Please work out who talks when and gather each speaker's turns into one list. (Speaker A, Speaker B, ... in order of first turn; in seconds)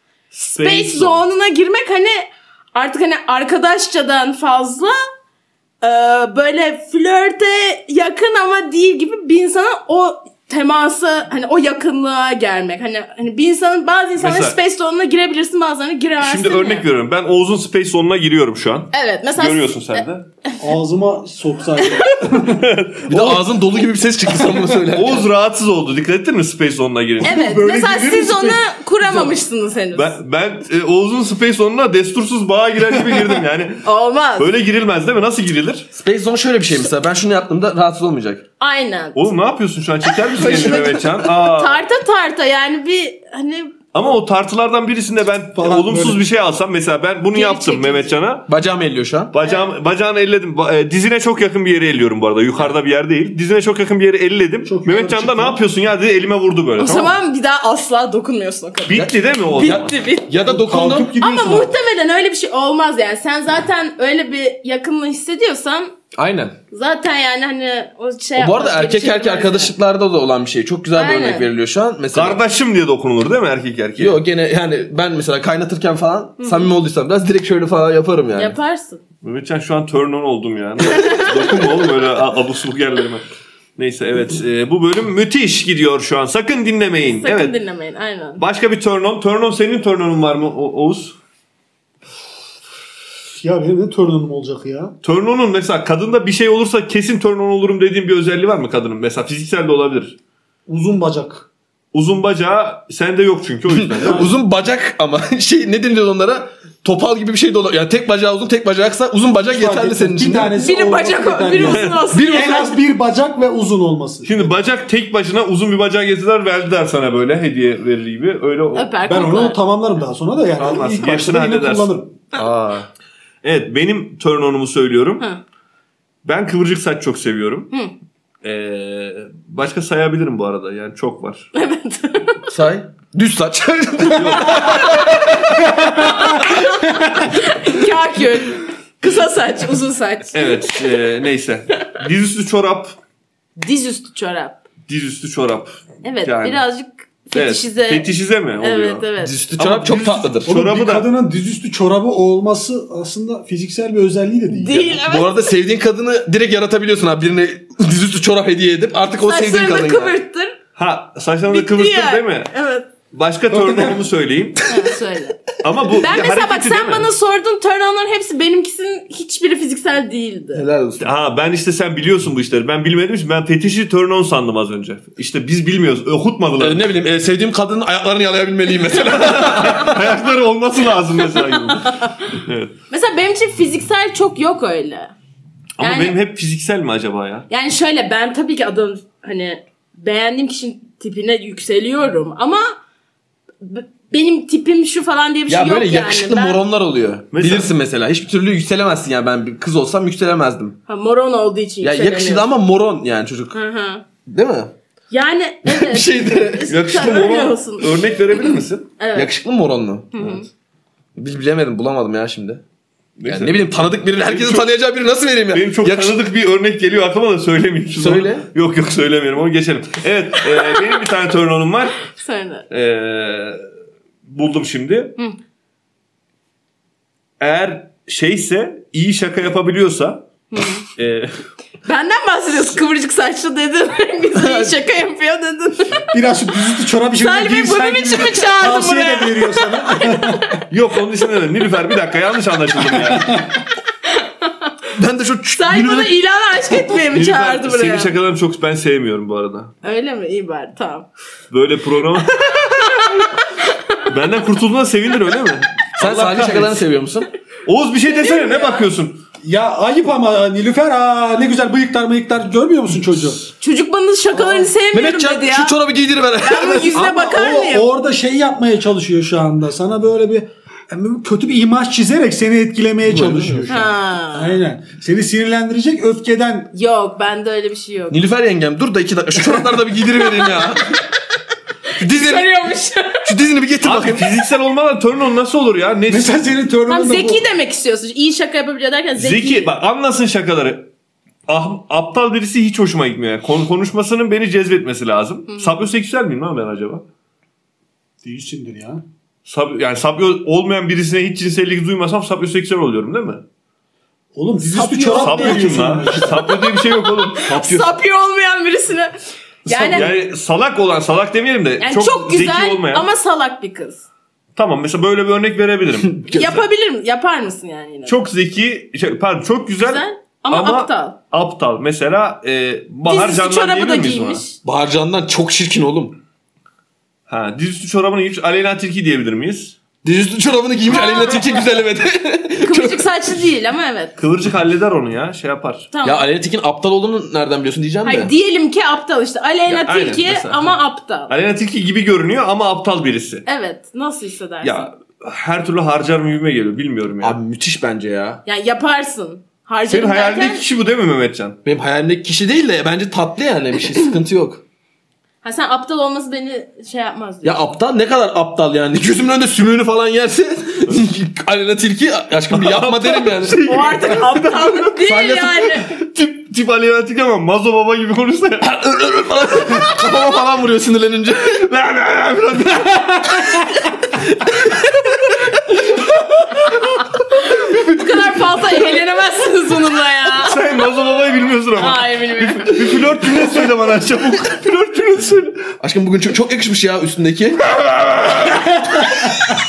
Speaker A: 0.3-1.2, 14.2-14.6, 16.2-20.3, 22.5-23.4, 24.9-27.4, 29.9-33.9, 34.4-35.9, 39.1-41.8, 43.9-48.5, 49.3-57.2, 58.9-59.9, 72.1-74.2, 79.2-83.2, 83.8-87.6, 88.4-91.2, 95.0-100.2, 101.9-104.3, 111.6-112.1, 114.2-118.9, 120.6-122.0, 123.4-125.3, 126.2-127.7, 128.4-131.5, 134.1-134.8, 140.3-143.0, 144.9-146.6, 147.3-149.1, 149.6-151.1, 160.8-162.5, 163.1-164.7, 165.6-167.1, 171.0-176.8, 178.9-182.7, 185.8-187.5, 197.3-197.7, 206.7-208.9, 213.2-214.7, 215.5-222.0, 222.7-223.6, 224.3-225.2, 227.4-230.3, 230.9-231.4, 240.7-243.5, 246.9-249.7, 251.5-252.7, 254.1-256.8, 257.7-259.2, 283.8-286.4, 289.2-290.9, 291.5-297.1, 299.5-303.4, 305.2-307.9, 309.7-313.1, 314.6-316.6, 318.1-324.4, 327.3-329.8, 334.2-335.9, 339.7-340.8, 341.3-343.4, 344.6-347.4, 349.9-351.6, 362.5-364.8, 366.0-368.8, 371.5-373.7, 380.4-385.7, 387.8-388.7
Speaker B: 0.4-5.0, 5.8-16.9, 18.9-20.6, 21.8-22.2, 27.2-30.1, 33.8-34.5, 38.6-39.3, 40.4-43.8, 47.3-48.1, 56.8-60.3, 61.2-65.9, 66.7-69.7, 71.0-71.5, 76.4-76.7, 78.3-79.0, 80.9-81.4, 87.2-88.4, 110.6-112.8, 118.7-119.6, 131.6-132.4, 134.4-135.1, 136.0-140.8, 143.6-144.6, 146.0-148.1, 148.6-149.4, 154.5-155.4, 159.3-160.6, 161.5-162.9, 164.7-170.6, 181.3-182.2, 182.9-185.1, 185.8-186.2, 187.5-192.8, 193.6-196.6, 200.9-202.5, 203.5-204.0, 205.1-209.3, 210.1-210.5, 222.1-222.7, 230.5-230.8, 231.8-236.1, 237.2-240.4, 244.1-244.7, 245.5-248.1, 249.8-251.1, 252.4-254.1, 258.1-258.9, 263.6-265.8, 266.4-267.9, 273.7-274.6, 276.7-278.2, 280.3-280.7, 282.0-283.2, 286.9-289.7, 304.7-309.1, 309.7-310.1, 311.8-314.0, 316.3-318.2, 319.8-321.2, 323.1-324.6, 330.9-331.6, 332.6-334.1, 335.9-336.3, 338.1-341.3, 343.5-344.9, 348.5-350.6, 355.4-357.6, 363.7-366.0, 377.4-380.8, 381.8-382.9
Speaker C: 20.6-22.7, 27.2-29.3, 45.5-46.2, 54.6-55.6, 60.4-61.7, 93.4-94.9, 100.7-101.5, 109.5-114.5, 119.0-122.1, 135.6-136.4, 150.4-155.0, 163.5-164.0, 236.1-240.6, 243.1-243.6, 259.4-263.4, 264.3-264.6, 267.0-276.7, 286.1-287.4, 298.2-299.0, 304.4-306.5
Speaker D: 23.1-25.3, 35.9-38.4, 40.3-41.1, 48.5-49.3, 58.9-61.1, 66.1-66.6, 68.4-72.4, 74.0-78.6, 103.7-110.6, 112.1-112.6, 122.3-122.9, 132.5-135.2, 149.2-150.5, 155.0-160.2, 170.5-171.1, 176.6-180.0, 195.5-200.8, 201.8-203.6, 204.3-204.7, 205.7-207.0, 209.1-210.4, 211.2-212.6, 213.3-216.2, 217.9-218.5, 234.4-234.7, 244.9-246.1, 256.0-257.3, 264.9-267.1, 273.1-273.8, 278.1-280.9, 282.0-282.5, 283.2-284.3, 316.1-316.5, 324.6-326.2, 330.0-333.1, 336.0-338.3, 347.2-348.4, 351.6-354.6, 357.4-363.8, 364.9-365.8, 368.6-371.6, 385.8-387.6